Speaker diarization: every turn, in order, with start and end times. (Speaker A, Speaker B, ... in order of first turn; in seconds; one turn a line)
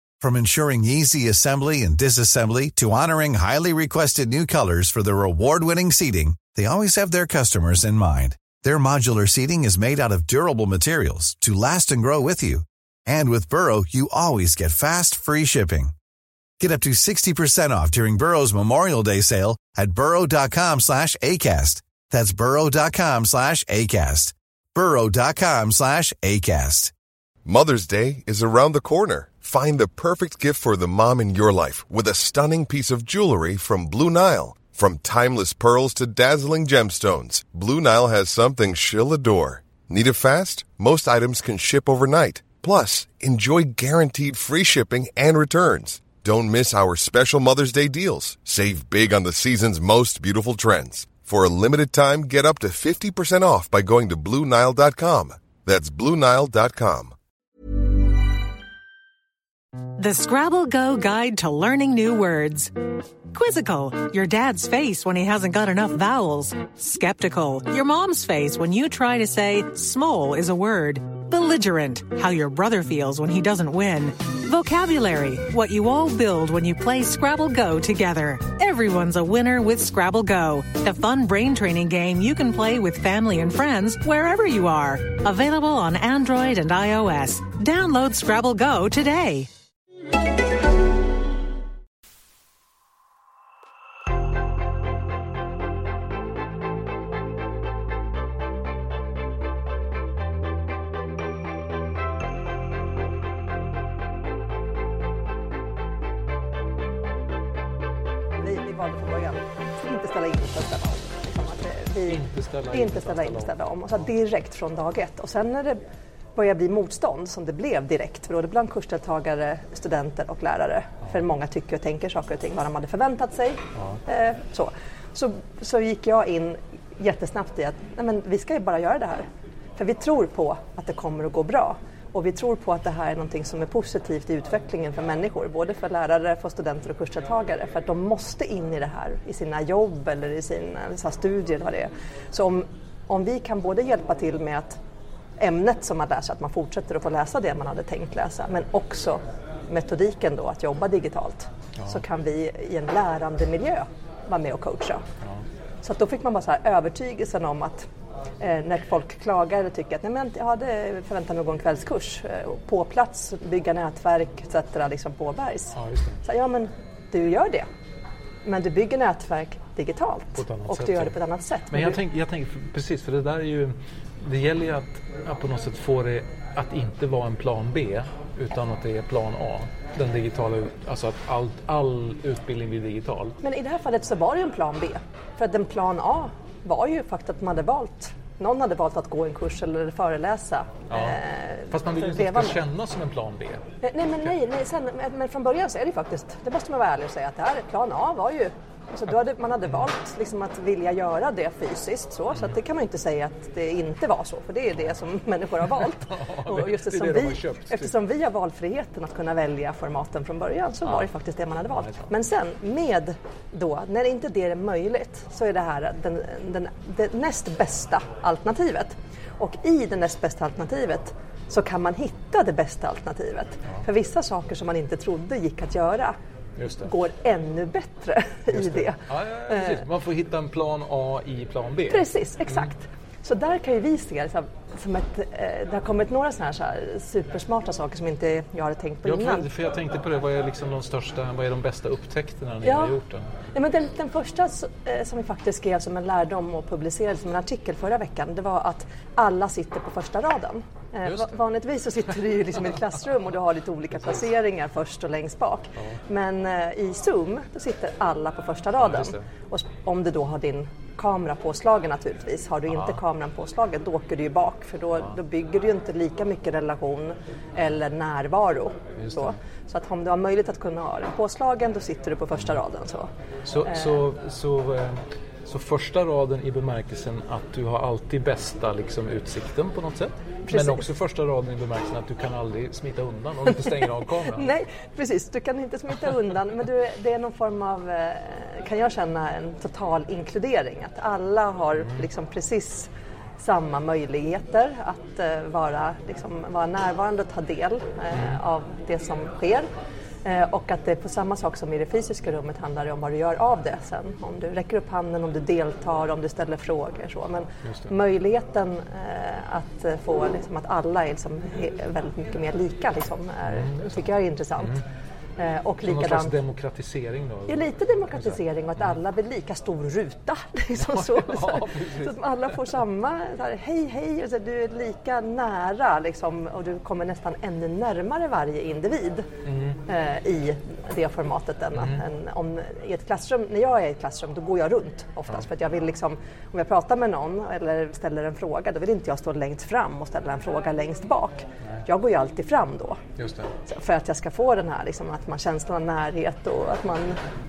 Speaker A: 0.2-15.9
Speaker A: 16.6-26.9
Speaker B: 27.4-57.1
Speaker C: 60.0-62.7
Speaker C: 63.3-89.5
Speaker D: 108.4-115.8
Speaker E: 112.0-114.1
Speaker D: 116.4-144.8
Speaker E: 123.8-124.0
Speaker D: 145.4-155.0
Speaker E: 151.8-152.0
Speaker D: 155.8-157.9
Speaker D: 158.4-167.7
Speaker E: 165.8-166.2
Speaker D: 168.4-172.0
Speaker E: 170.3-171.2
Speaker E: 171.7-183.4
Speaker D: 183.4-192.6
Speaker E: 190.9-191.2
Speaker E: 191.7-193.6
Speaker D: 193.8-226.2
Speaker E: 205.7-208.0
Speaker E: 211.8-212.1
Speaker E: 226.6-226.9
Speaker D: 226.8-229.8
Speaker E: 228.5-232.7
Speaker D: 231.9-239.5
Speaker E: 239.1-243.4
Speaker D: 242.6-242.9
Speaker D: 243.5-273.1
Speaker E: 251.0-251.3
Speaker E: 258.8-259.2
Speaker E: 262.7-263.0
Speaker E: 269.0-269.4
Speaker E: 273.4-284.5
Speaker D: 273.7-273.9
Speaker D: 280.5-280.9
Speaker D: 283.5-299.7
Speaker E: 291.8-292.1
Speaker E: 298.1-298.4
Speaker D: 300.2-314.8
Speaker E: 307.6-307.9
Speaker E: 313.5-313.8
Speaker D: 315.4-316.4
Speaker E: 315.8-318.9
Speaker D: 317.5-329.3
Speaker E: 320.8-322.2
Speaker E: 329.5-329.8
Speaker D: 329.9-343.0
Speaker E: 331.8-332.0
Speaker E: 343.2-343.5
Speaker D: 343.7-347.2